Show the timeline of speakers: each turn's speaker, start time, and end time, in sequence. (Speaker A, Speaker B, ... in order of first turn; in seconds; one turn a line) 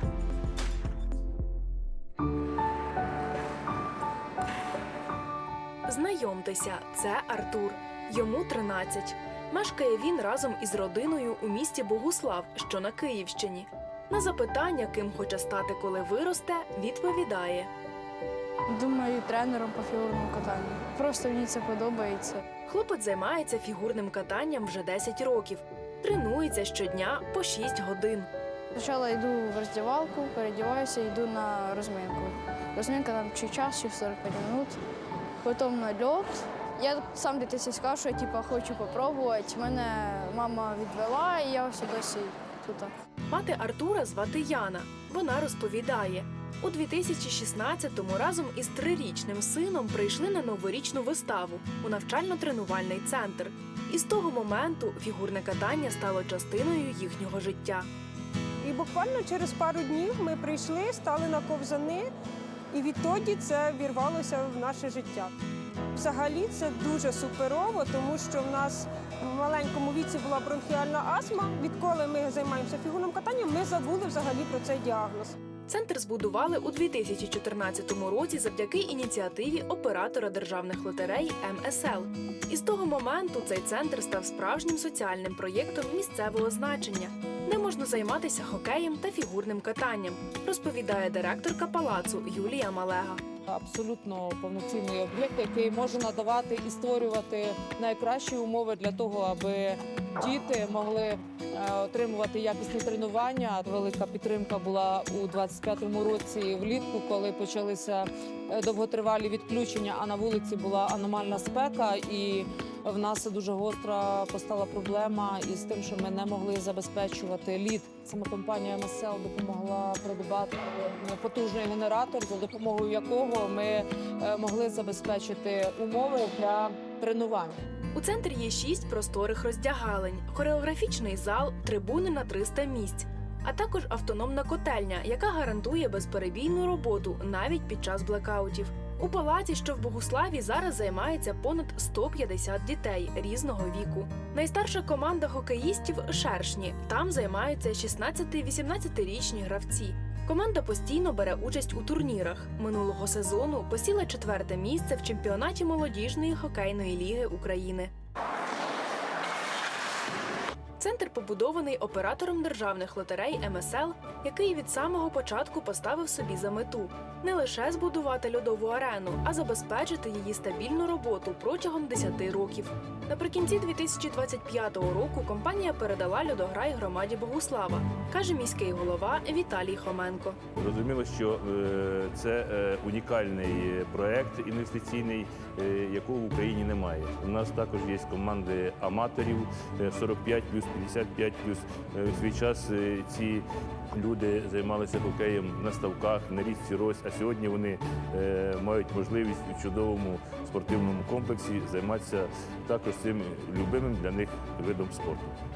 Speaker A: 5.9-17.7
Speaker B: 18.7-22.4
Speaker A: 22.7-28.3
Speaker B: 28.7-34.8
Speaker B: 35.4-42.9
Speaker A: 43.3-57.9
Speaker C: 58.6-62.1
Speaker C: 62.7-65.3
Speaker C: 65.9-75.3
Speaker A: 75.7-93.2
Speaker D: 93.5-127.6
Speaker A: 127.9-157.9
Speaker A: 160.8-180.4
Speaker E: 180.6-205.4